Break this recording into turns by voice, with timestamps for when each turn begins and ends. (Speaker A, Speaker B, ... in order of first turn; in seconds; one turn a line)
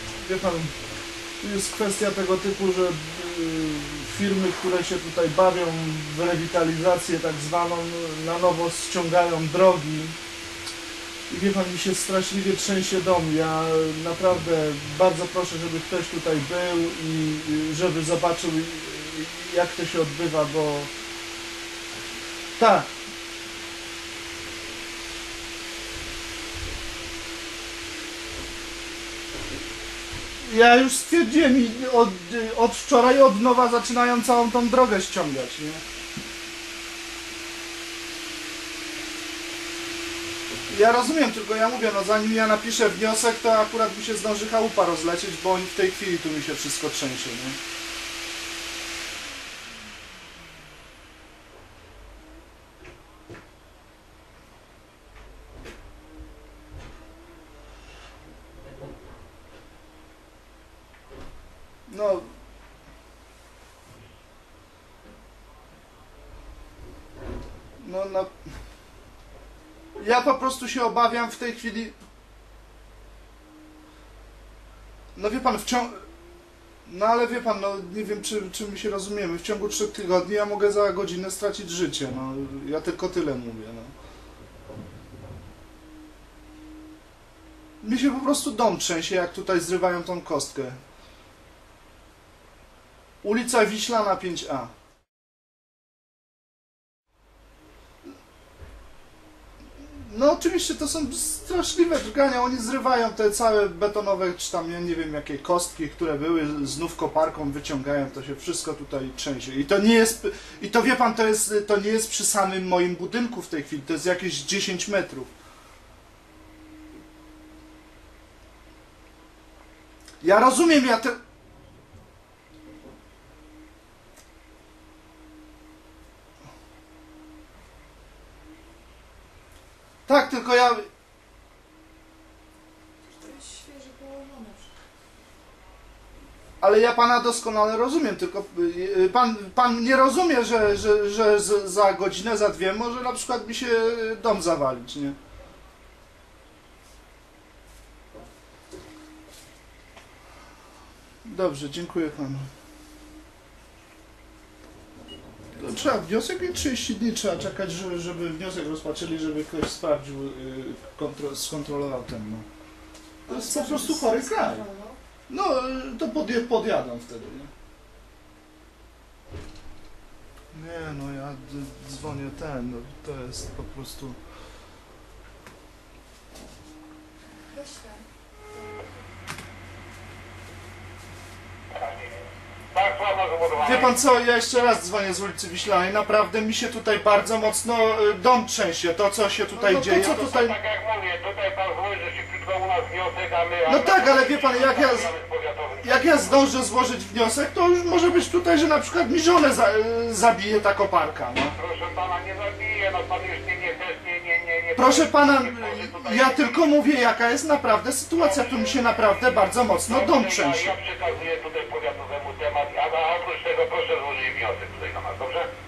Speaker A: 0.2-0.7
Speaker A: 1.4-10.2
Speaker A: 11.3-20.9
Speaker A: 22.6-22.9
Speaker A: 30.4-35.8
Speaker A: 40.7-47.6
Speaker A: 61.9-62.3
Speaker A: 67.8-68.3
Speaker A: 70.0-72.0
Speaker A: 75.2-76.0
Speaker A: 76.9-83.9
Speaker A: 87.8-90.8
Speaker A: 93.2-94.7
Speaker A: 99.8-115.3
Speaker A: 120.2-121.2
Speaker A: 130.1-130.8
Speaker B: 133.1-134.7
Speaker A: 136.6-145.2
Speaker A: 151.2-152.5
Speaker A: 155.6-162.5
Speaker A: 163.3-164.7
Speaker B: 163.3-165.0
Speaker A: 165.3-167.5
Speaker A: 170.5-174.2
Speaker B: 177.5-178.9
Speaker C: 181.8-184.0
Speaker A: 183.6-190.6
Speaker C: 189.6-196.4
Speaker A: 193.7-195.1
Speaker A: 195.8-201.6
Speaker C: 201.6-206.6
Speaker A: 204.8-210.8
Speaker C: 208.2-208.9
Speaker C: 209.9-215.5